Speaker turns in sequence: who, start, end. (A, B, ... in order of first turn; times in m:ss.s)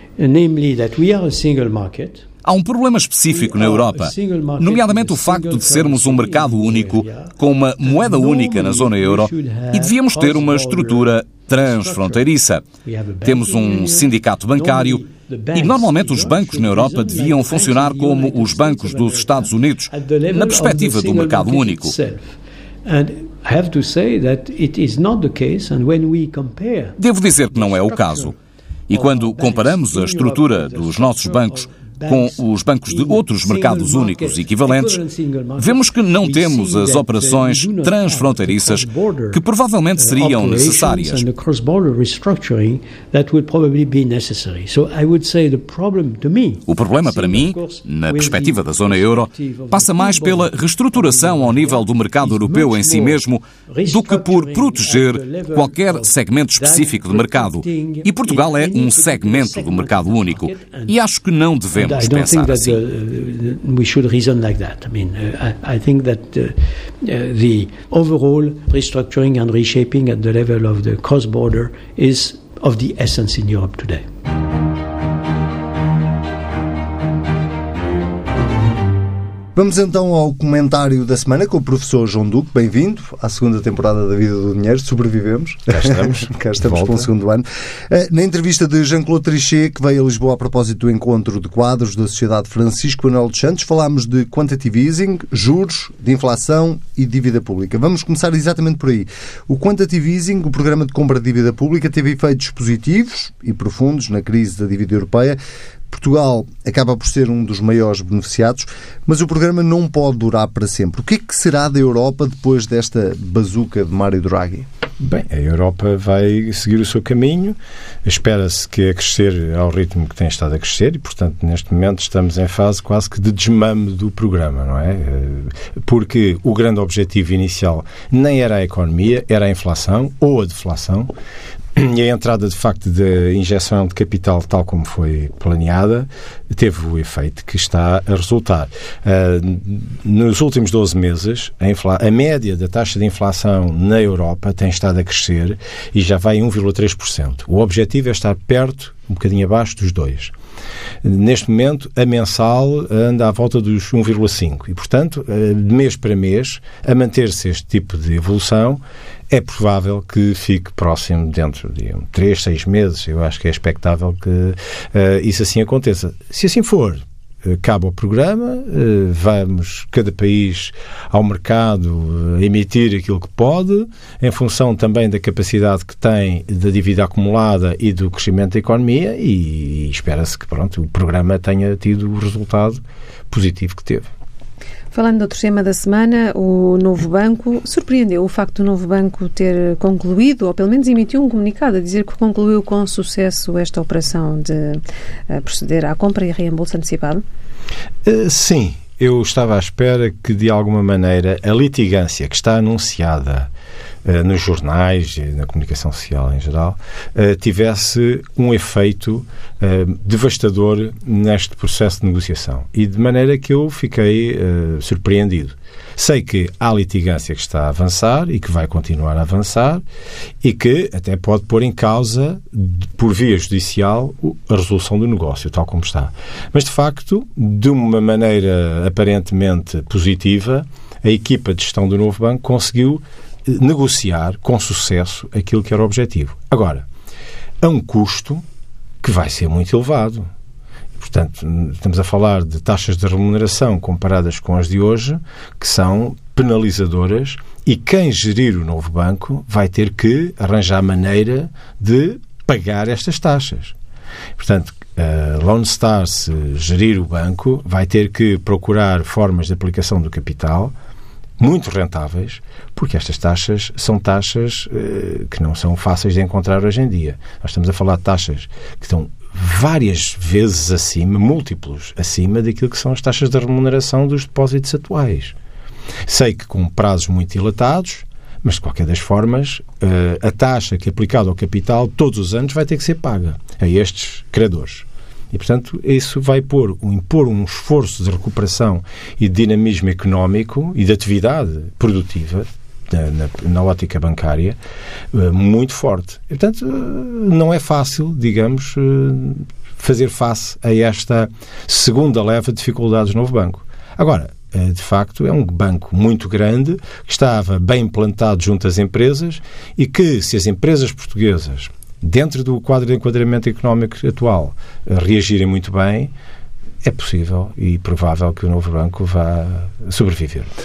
0:00.2-0:02.3 A
0:02.4-0:12.6 B
0:03.3-0:12.3 A
0:12.8-0:28.4 A
0:13.2-0:15.0 B
0:15.6-0:21.9 B
0:27.0-0:28.3 B
0:28.9-0:35.0 B
0:28.9-0:39.4 A
0:35.6-0:41.2 B
0:40.0-1:01.0 A
0:46.7-1:02.8 B
1:01.8-1:14.0 A
1:19.6-1:54.7 C
1:25.7-1:27.1 D
1:55.0-2:11.1 D
2:11.8-2:30.3 D
2:31.0-3:04.1 D
3:04.9-3:17.2 E
3:18.0-3:23.5 D
3:24.0-3:39.8 D
3:40.4-3:56.8 D
3:57.6-3:58.4 D
3:59.0-4:00.3 D
4:01.0-4:13.8 D
4:14.4-4:20.7 D
4:21.4-4:35.4 D
4:36.1-4:54.6 D
4:55.1-5:16.1 D
5:16.8-5:20.5 D